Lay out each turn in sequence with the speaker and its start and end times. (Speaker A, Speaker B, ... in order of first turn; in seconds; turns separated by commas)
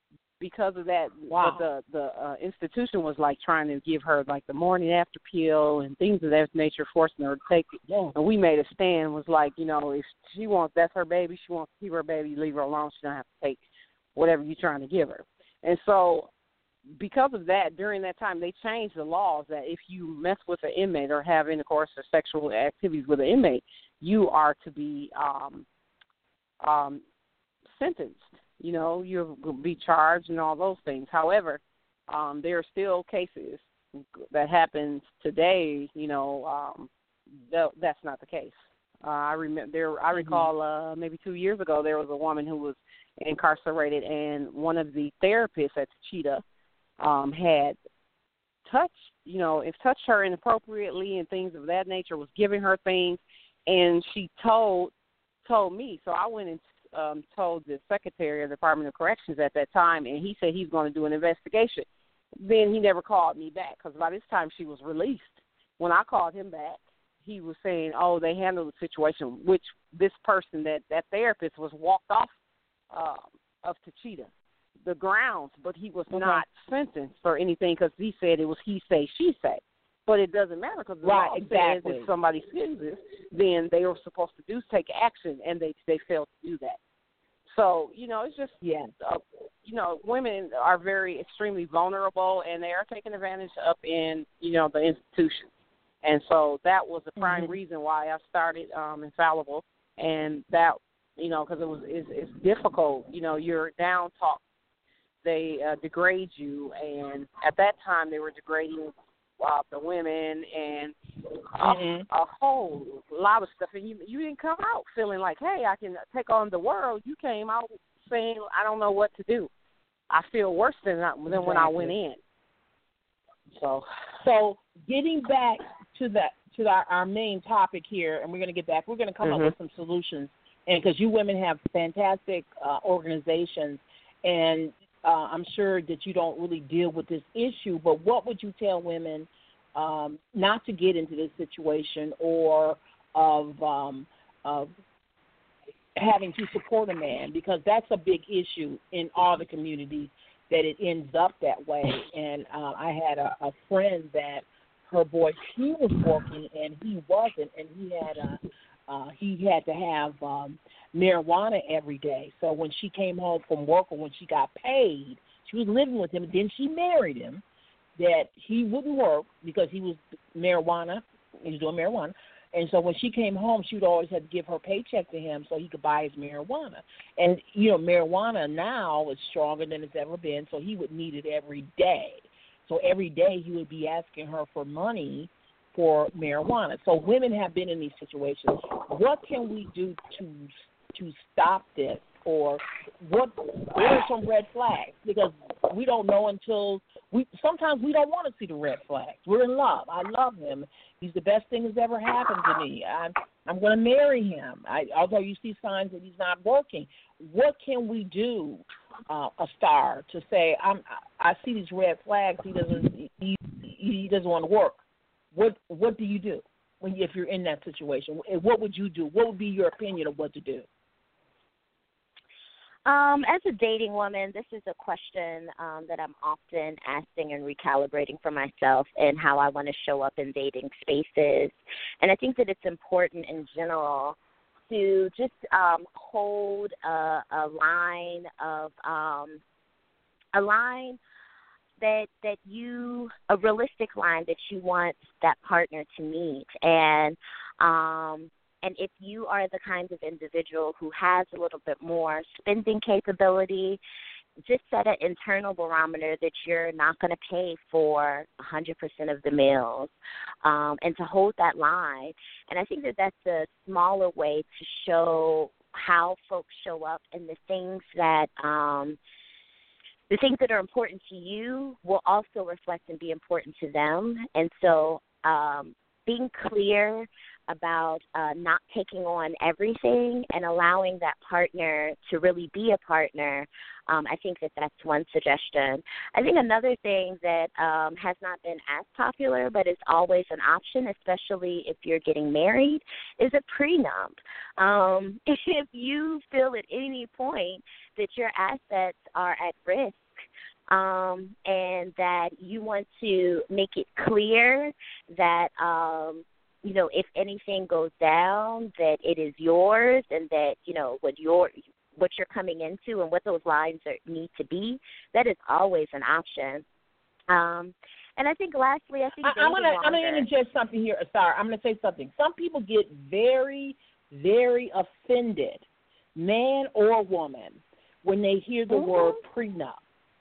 Speaker A: 0.4-13.6, Speaker B: 1.3-1.6, Speaker B: 7.9-8.1, Speaker A: 14.1-16.3, Speaker A: 16.9-25.6, Speaker A: 26.6-27.0, Speaker A: 27.7-36.9, Speaker A: 37.5-46.4, Speaker B: 40.1-40.5, Speaker A: 47.0-47.8, Speaker A: 48.6-54.9, Speaker A: 55.4-61.8, Speaker A: 62.4-72.3, Speaker A: 72.9-74.3, Speaker A: 74.8-86.8, Speaker B: 76.1-76.4, Speaker B: 81.0-82.1, Speaker A: 87.5-95.5, Speaker B: 88.6-88.9, Speaker A: 96.0-104.4, Speaker B: 97.2-97.6, Speaker A: 105.2-110.9, Speaker A: 111.5-119.5, Speaker B: 111.6-112.0, Speaker A: 120.1-122.2, Speaker B: 121.3-121.9, Speaker A: 123.5-123.8, Speaker B: 124.2-144.7, Speaker A: 129.2-129.5, Speaker B: 145.9-167.4, Speaker B: 168.0-214.8, Speaker B: 215.3-220.7, Speaker C: 222.8-234.2, Speaker C: 234.7-239.4, Speaker C: 240.3-241.0, Speaker C: 241.8-253.8, Speaker C: 254.4-259.9, Speaker C: 260.4-269.0, Speaker C: 270.1-316.6, Speaker C: 317.3-320.3, Speaker B: 319.2-329.8